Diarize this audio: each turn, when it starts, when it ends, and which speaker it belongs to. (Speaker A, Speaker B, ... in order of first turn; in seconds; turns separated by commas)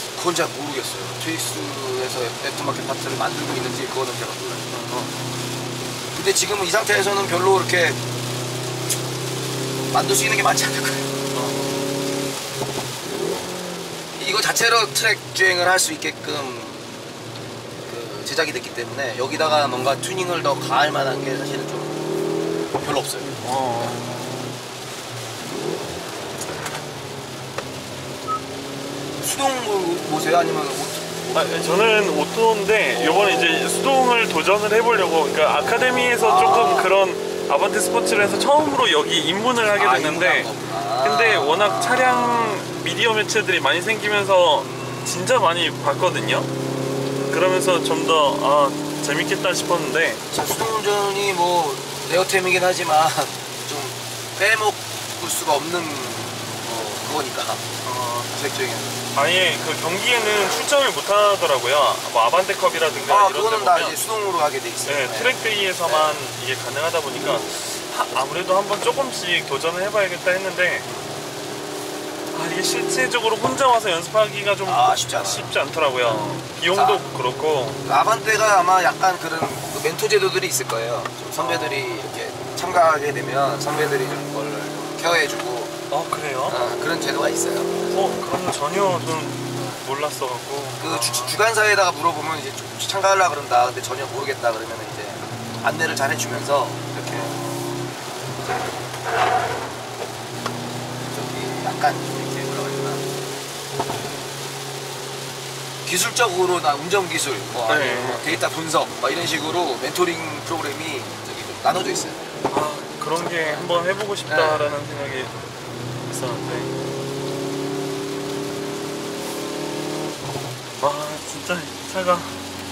Speaker A: 0.2-4.7, Speaker B: 4.7-5.2, Speaker A: 6.1-8.0, Speaker A: 9.9-11.1, Speaker B: 11.3-11.9, Speaker A: 14.2-16.9, Speaker A: 17.8-22.1, Speaker A: 22.8-24.0, Speaker B: 23.4-24.6, Speaker A: 29.2-31.7, Speaker B: 31.3-40.5, Speaker A: 32.9-33.7, Speaker A: 36.2-36.9, Speaker A: 39.7-42.6, Speaker B: 41.0-46.5, Speaker A: 44.6-45.3, Speaker B: 47.3-50.2, Speaker A: 50.3-57.7, Speaker B: 57.8-58.3, Speaker A: 58.3-59.1, Speaker B: 59.1-64.0, Speaker A: 63.1-66.2, Speaker B: 64.9-70.9, Speaker B: 72.3-77.8, Speaker A: 74.7-75.6, Speaker A: 76.7-77.1, Speaker A: 77.8-85.8, Speaker B: 81.4-82.1, Speaker B: 85.9-86.6, Speaker A: 86.5-88.1, Speaker B: 87.9-91.4, Speaker A: 90.8-97.3, Speaker B: 97.1-98.0, Speaker A: 101.1-103.1, Speaker A: 105.8-112.4, Speaker B: 107.7-108.4, Speaker B: 112.5-115.3, Speaker A: 113.2-114.8, Speaker B: 116.0-116.8, Speaker B: 120.8-122.5